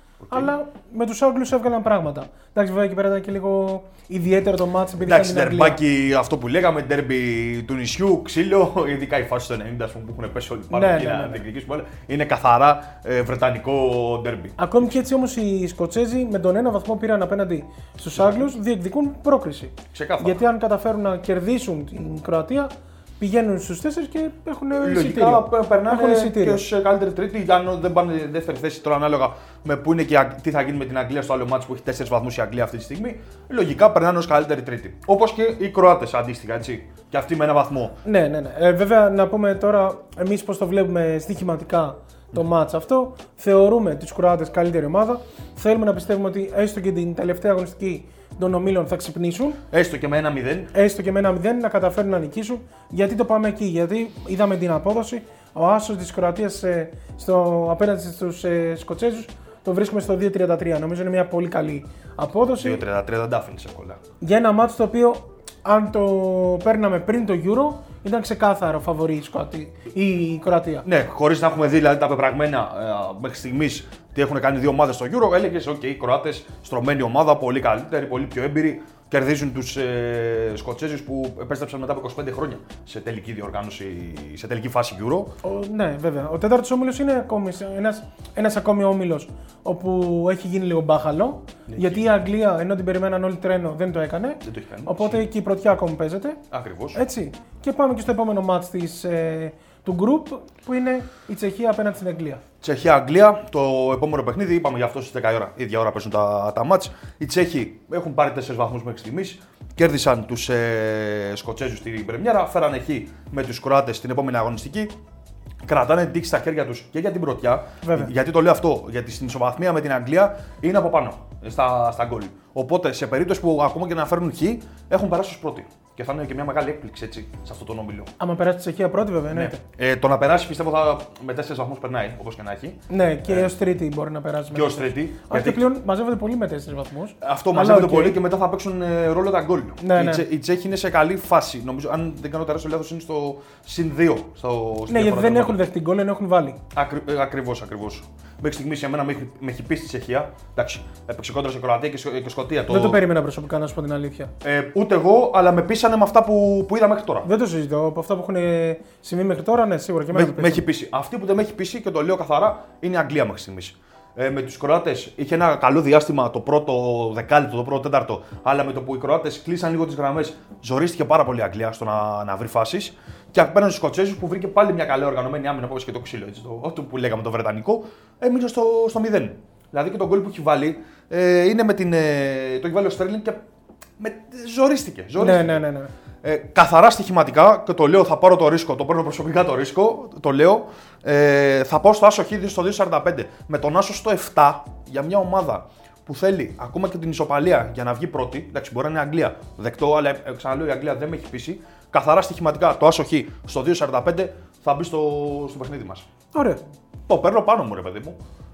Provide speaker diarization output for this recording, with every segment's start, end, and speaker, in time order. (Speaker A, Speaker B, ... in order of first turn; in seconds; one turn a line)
Speaker A: 0.3-0.5
Speaker B: 0.3-5.8
Speaker A: 5.0-14.6
Speaker B: 10.7-11.4
Speaker B: 14.6-26.6
Speaker A: 18.2-18.4
Speaker A: 19.9-20.4
Speaker A: 24.8-38.0
Speaker B: 38.0-49.6
Speaker A: 49.7-50.7
Speaker B: 50.7-62.8
Speaker A: 62.4-64.0
Speaker B: 64.2-70.8
Speaker A: 70.8-85.3
Speaker B: 85.4-96.4
Speaker A: 91.7-92.0
Speaker A: 94.4-95.2
Speaker A: 96.5-97.0
Speaker B: 96.9-102.4
Speaker A: 102.6-114.9
Speaker A: 115.6-128.1
Speaker B: 117.8-118.1
Speaker B: 128.2-129.6
Speaker A: 129.3-133.5
Speaker B: 132.9-138.2
Speaker A: 134.5-135.6
Speaker A: 137.2-145.6
Speaker B: 139.8-140.2
Speaker B: 144.9-146.6
Speaker A: 146.7-153.0
Speaker B: 152.7-154.3
Speaker A: 154.4-157.3
Speaker B: 157.2-160.6
Speaker A: 160.1-183.4
Speaker A: 184.0-185.6
Speaker B: 185.2-185.9
Speaker A: 186.2-206.1
Speaker B: 206.3-206.6
Speaker A: 207.1-208.2